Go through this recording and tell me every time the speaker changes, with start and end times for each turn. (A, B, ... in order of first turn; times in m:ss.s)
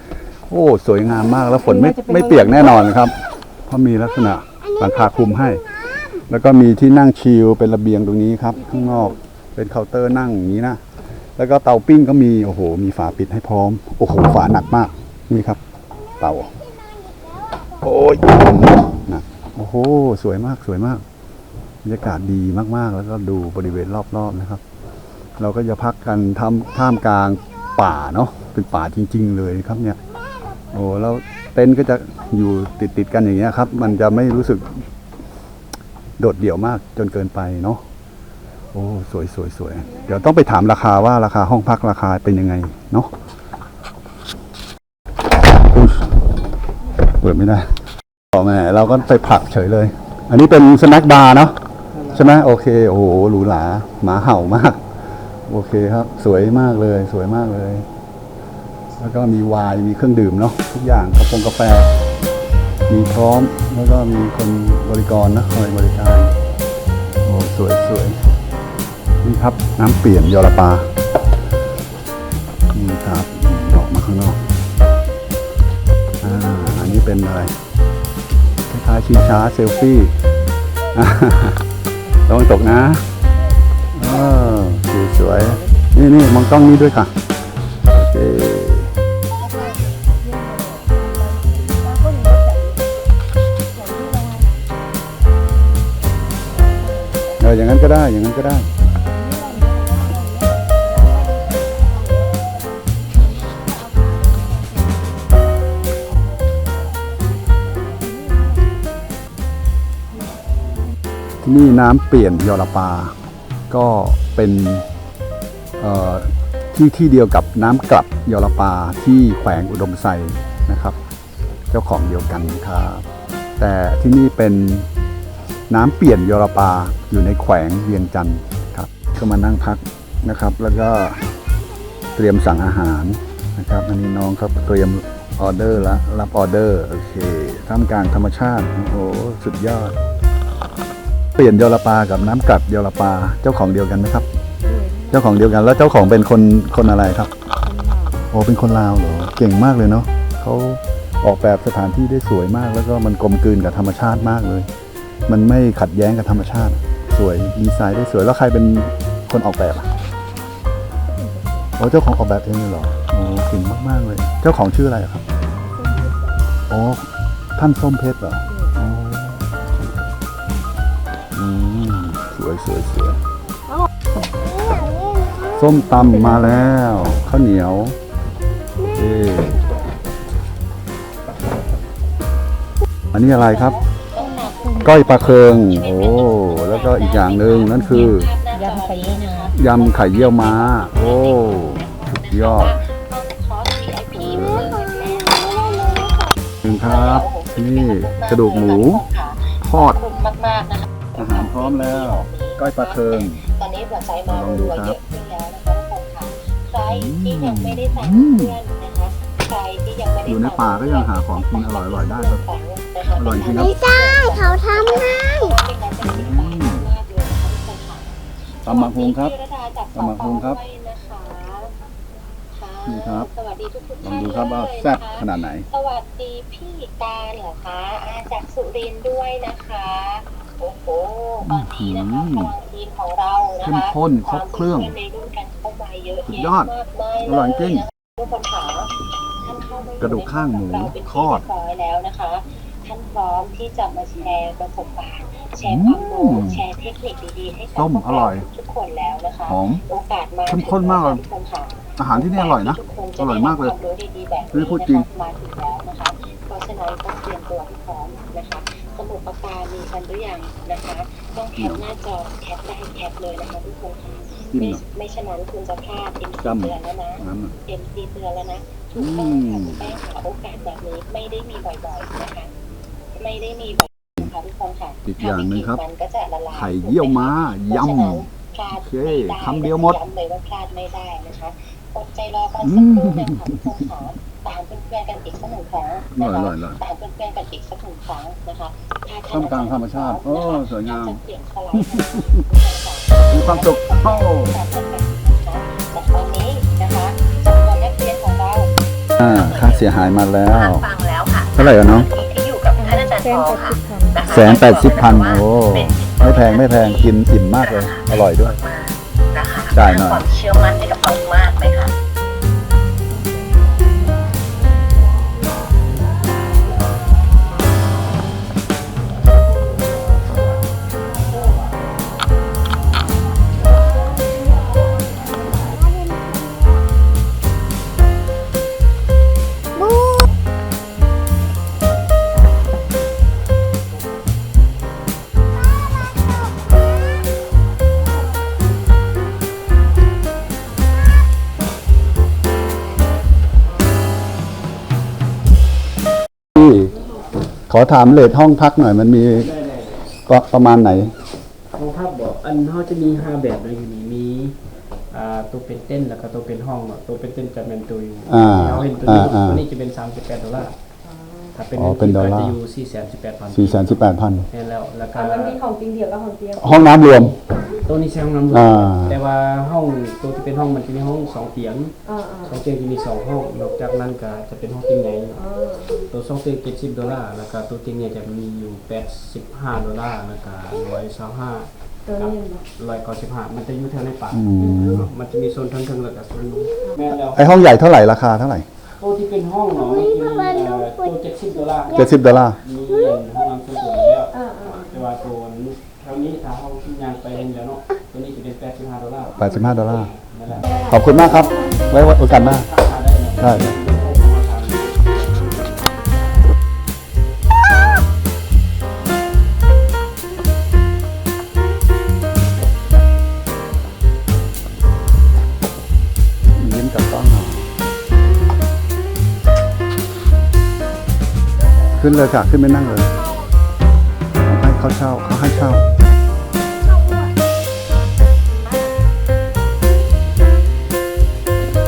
0:00.5-0:10.8 A
0:02.1-0:02.4 B
0:11.4-0:15.6 A
0:16.2-0:16.6 A
0:17.7-0:21.0 A
0:21.8-0:24.6 A
0:25.4-0:30.0 A
0:30.7-0:34.9 A
0:36.2-0:37.8 A
0:38.7-0:43.1 A
0:45.5-0:46.1 A
0:47.0-0:47.8 A
0:48.3-0:51.6 A
0:52.1-0:54.8 A
0:55.5-0:57.9 A
0:59.0-1:02.0 A
1:02.9-1:06.3 A
1:07.2-1:08.2 A
1:09.2-1:10.9 A
1:12.7-1:14.4 A
1:16.2-1:17.6 A
1:18.7-1:20.2 A
1:20.9-1:21.6 A
1:22.2-1:23.1 A
1:23.9-1:27.2 A
1:27.9-1:28.9 A
1:30.3-1:30.8 B
1:31.9-1:32.6 B
1:33.8-1:34.5 B
1:37.4-1:38.7 A
1:39.2-1:40.5 B
1:41.1-1:41.4 B
1:51.4-1:53.2 A
1:53.7-1:54.9 A
1:55.8-2:01.0 A
2:01.7-2:03.1 A
2:03.6-2:04.9 A
2:05.7-2:11.3 A
2:12.1-2:20.0 A
2:21.4-2:24.3 A
2:24.7-2:25.1 B
2:25.1-2:27.3 A
2:27.7-2:28.2 B
2:28.3-2:34.7 A
2:35.3-2:39.9 A
2:41.1-2:41.7 B
2:41.8-2:45.2 A
2:46.7-2:49.5 A
2:51.3-2:53.2 A
2:55.4-2:58.0 A
2:58.9-2:59.8 A
3:03.1-3:03.8 A
3:03.7-3:16.3 C
3:04.8-3:08.4 A
3:08.6-3:09.4 B
3:09.5-3:12.9 A
3:14.1-3:14.8 A
3:16.6-3:20.1 A
3:17.1-3:17.6 C
3:18.9-3:19.4 C
3:20.1-3:22.4 C
3:21.1-3:23.5 A
3:23.5-3:30.2 C
3:24.2-3:25.0 A
3:26.8-3:28.6 A
3:30.2-3:32.4 A
3:32.3-3:38.2 C
3:33.1-3:33.9 A
3:36.0-3:36.9 A
3:38.6-3:39.4 A
3:39.0-3:41.8 C
3:39.9-3:40.6 A
3:42.5-3:45.0 C
3:42.8-3:43.3 A
3:44.0-3:45.7 A
3:45.7-3:53.6 C
3:51.4-3:52.6 A
3:53.6-3:55.0 A
3:54.9-3:56.3 C
3:56.2-3:57.9 A
3:56.8-3:57.2 C
3:58.1-4:00.1 C
4:00.0-4:01.5 A
4:00.9-4:27.1 C
4:05.6-4:06.7 A
4:07.7-4:08.5 A
4:09.4-4:09.8 A
4:10.5-4:11.3 A
4:12.0-4:13.8 A
4:14.5-4:15.1 A
4:21.6-4:21.8 A
4:24.5-4:24.8 A
4:26.4-4:27.6 A
4:27.7-4:32.5 C
4:28.9-4:30.0 A
4:33.1-4:37.2 C
4:35.1-4:35.8 A
4:36.5-4:40.0 A
4:37.9-4:38.7 C
4:39.2-4:50.0 C
4:42.6-4:43.9 A
4:46.1-4:46.8 A
4:49.3-4:51.2 A
4:51.0-4:58.7 C
4:51.7-4:52.5 A
4:53.3-4:54.6 A
4:59.2-5:00.9 A
5:00.7-5:05.1 C
5:01.5-5:02.1 A
5:02.8-5:04.3 B
5:04.2-5:08.6 A
5:06.1-5:06.7 C
5:08.7-5:11.9 C
5:09.7-5:10.3 A
5:46.6-5:46.9 A
5:47.7-5:49.5 A
5:49.4-5:50.0 D
5:50.3-5:51.3 A
5:51.7-5:54.6 D
5:55.1-6:00.8 D
5:58.3-5:59.6 A
6:01.5-6:05.6 D
6:01.8-6:02.6 A
6:03.5-6:04.5 A
6:05.2-6:06.6 B
6:06.6-6:07.4 A
6:06.7-6:27.6 D
6:08.5-6:09.2 A
6:12.1-6:12.5 B
6:15.5-6:16.0 B
6:22.1-6:22.6 B
6:24.3-6:25.1 A
6:27.2-6:28.8 A
6:29.0-6:40.7 D
6:31.9-6:32.6 A
6:34.4-6:34.8 B
6:39.4-6:42.7 A
6:41.4-6:46.2 D
6:43.4-6:43.8 A
6:56.6-6:57.7 A
7:02.0-7:03.2 A
7:04.4-7:05.9 A